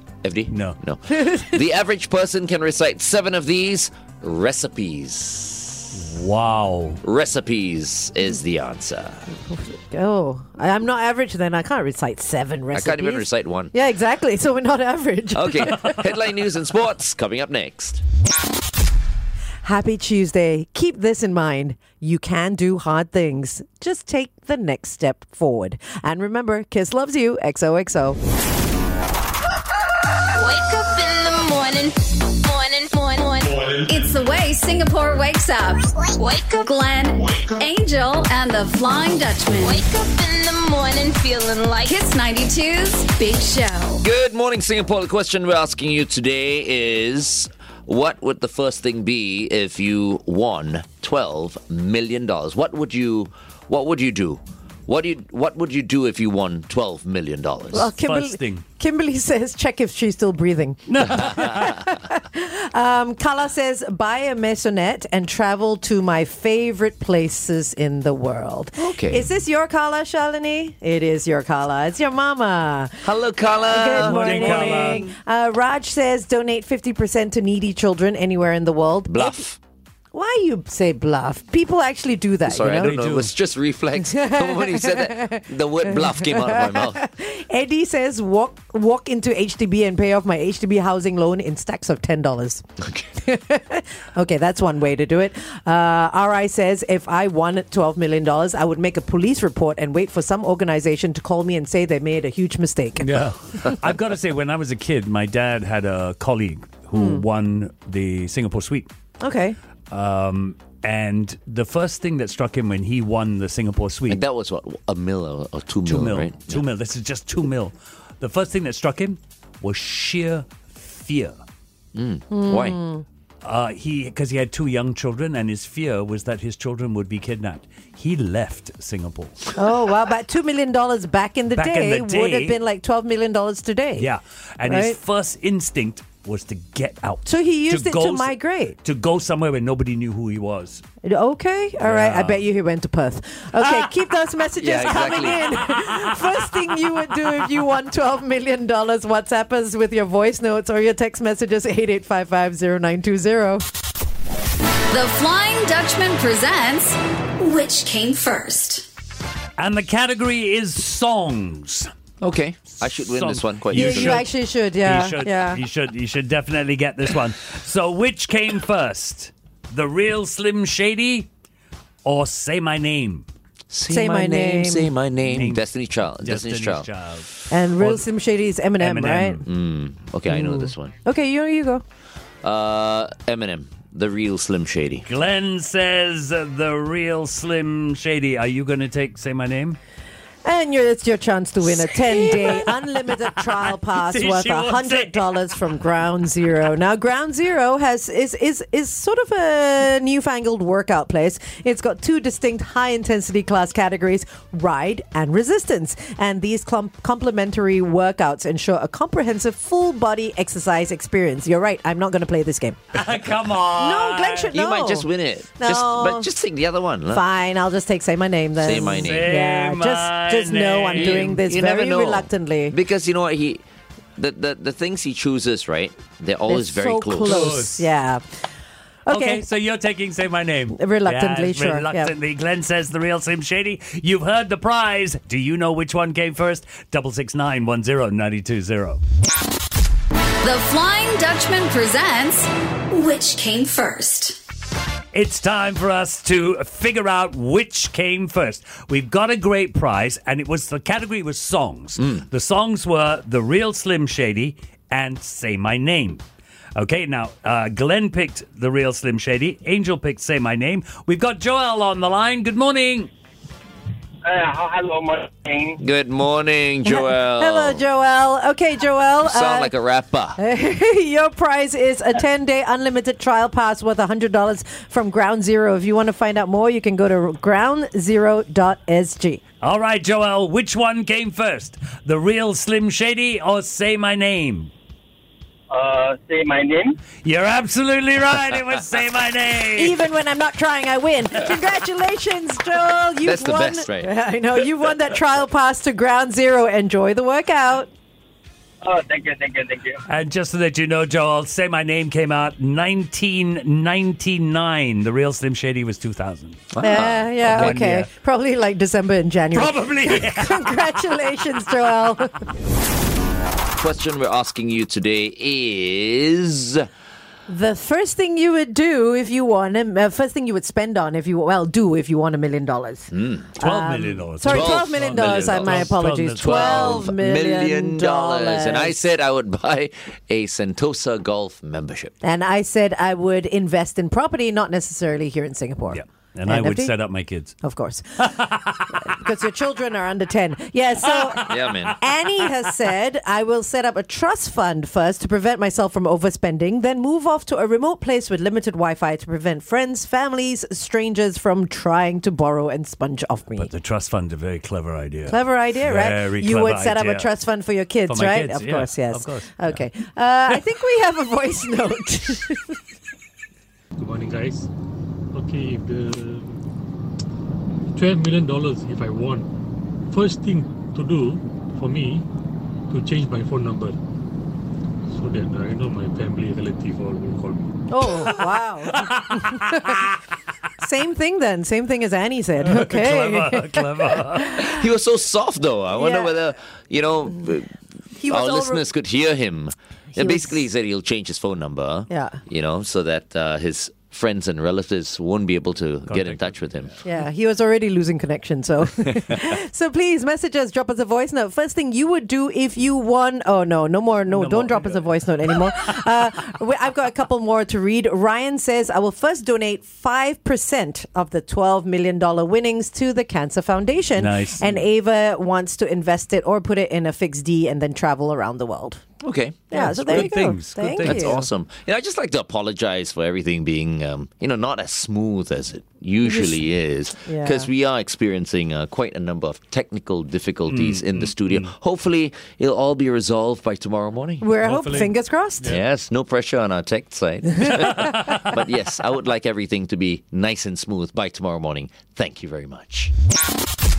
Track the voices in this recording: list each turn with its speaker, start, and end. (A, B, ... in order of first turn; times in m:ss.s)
0:00.2-0:05.9 A
0:00.5-0:00.8 B
0:01.1-0:01.6 C
0:05.9-0:07.0 B
0:07.0-0:09.3 A
0:09.4-0:16.0 C
0:12.7-0:13.7 A
0:15.3-0:18.0 A
0:19.6-0:28.2 C
0:30.3-0:33.7 D
0:33.9-0:36.0 E
0:36.0-0:36.7 D
0:36.6-0:39.8 E
0:39.6-0:41.9 D
0:41.8-0:44.0 E
0:44.0-0:57.9 A
0:57.7-0:58.6 B
0:57.7-1:19.4 C
1:00.9-1:01.8 B
1:08.8-1:09.3 A
1:13.0-1:15.1 A
1:13.9-1:15.1 B
1:19.1-1:19.6 A
1:20.1-1:22.9 C
1:22.4-1:27.0 A
1:22.8-1:23.3 B
1:24.0-1:32.6 C
1:33.2-1:43.7 C
1:43.0-1:48.9 B
1:46.9-1:47.2 C
1:49.2-1:49.6 C
1:49.9-1:54.2 B
1:54.1-1:56.6 A
1:55.8-2:01.4 B
2:01.9-2:02.8 A
2:02.3-2:03.0 C
2:03.4-2:09.4 B
2:09.5-2:14.1 C
2:11.5-2:12.6 B
2:14.0-2:20.8 B
2:14.6-2:15.0 C
2:17.2-2:18.8 C
2:21.0-2:33.6 C
2:21.8-2:22.4 B
2:23.6-2:23.9 B
2:24.6-2:25.7 A
2:34.9-2:38.8 E
2:39.6-2:41.9 B
2:42.2-2:44.2 A
2:42.9-2:44.3 B
2:43.7-2:45.6 C
2:44.8-2:51.3 B
2:52.0-2:53.3 B
2:53.7-2:56.9 A
2:53.9-2:54.9 C
2:55.3-2:55.6 B
2:56.2-2:58.1 B
2:57.5-2:59.4 C
2:58.8-2:59.4 B
2:59.4-3:00.9 A
3:00.3-3:01.8 C
3:02.4-3:05.0 A
3:05.0-3:09.8 B
3:10.4-3:33.0 C
3:11.8-3:15.3 B
3:32.9-3:34.5 B
3:33.8-3:36.3 C
3:34.5-3:37.2 A
3:37.1-3:42.8 C
3:38.6-3:39.3 A
3:38.7-3:41.4 B
3:40.9-3:43.6 A
3:44.2-3:47.6 A
3:46.5-3:48.2 C
3:47.2-3:47.9 B
3:49.0-3:49.4 C
3:49.1-3:59.0 B
3:50.8-3:52.1 C
4:00.4-4:04.4 E
4:05.1-4:16.2 B
4:16.8-4:23.1 B
4:24.2-4:25.8 F
4:25.8-4:27.8 A
4:26.8-4:29.7 C
4:29.2-4:30.4 A
4:30.4-4:39.4 C
4:39.6-4:44.7 B
4:45.7-4:47.0 F
4:47.2-4:50.0 B
4:49.8-4:57.9 C
4:53.2-4:54.1 A
4:58.8-5:00.0 F
5:00.1-5:06.8 B
5:06.7-5:07.8 A
5:06.8-5:12.4 C
5:07.4-5:08.1 B
5:09.5-5:11.0 B
5:13.7-5:16.9 A
5:17.5-5:29.0 C
5:23.1-5:23.5 A
5:23.6-5:27.1 B
5:24.5-5:32.1 A
5:32.2-5:36.9 C
5:35.9-5:37.6 B
5:37.6-5:53.7 C
5:38.2-5:38.9 B
5:41.3-5:41.7 B
5:41.4-5:42.0 A
5:53.6-5:57.3 B
5:55.3-6:02.8 C
5:58.1-5:59.8 B
6:04.0-6:04.7 G
6:05.3-6:06.6 G
6:07.9-6:09.5 G
6:10.1-6:12.3 G
6:12.9-6:14.0 G
6:15.1-6:17.7 G
6:17.9-6:20.1 C
6:18.2-6:20.1 B
6:20.8-6:24.8 C
6:22.6-6:24.7 B
6:24.6-6:36.9 A
6:26.0-6:26.3 C
6:28.1-6:28.8 C
6:30.2-6:30.6 C
6:32.1-6:32.4 C
6:36.1-6:37.0 B
6:37.0-6:59.0 C
6:44.3-6:45.9 B
6:54.2-6:54.8 B
6:59.2-7:14.4 A
6:59.7-7:01.4 C
6:59.7-7:01.4 B
7:06.2-7:07.7 C
7:10.7-7:11.7 B
7:14.4-7:15.8 C
7:14.6-7:15.8 B
7:15.7-7:23.1 A
7:18.0-7:18.5 B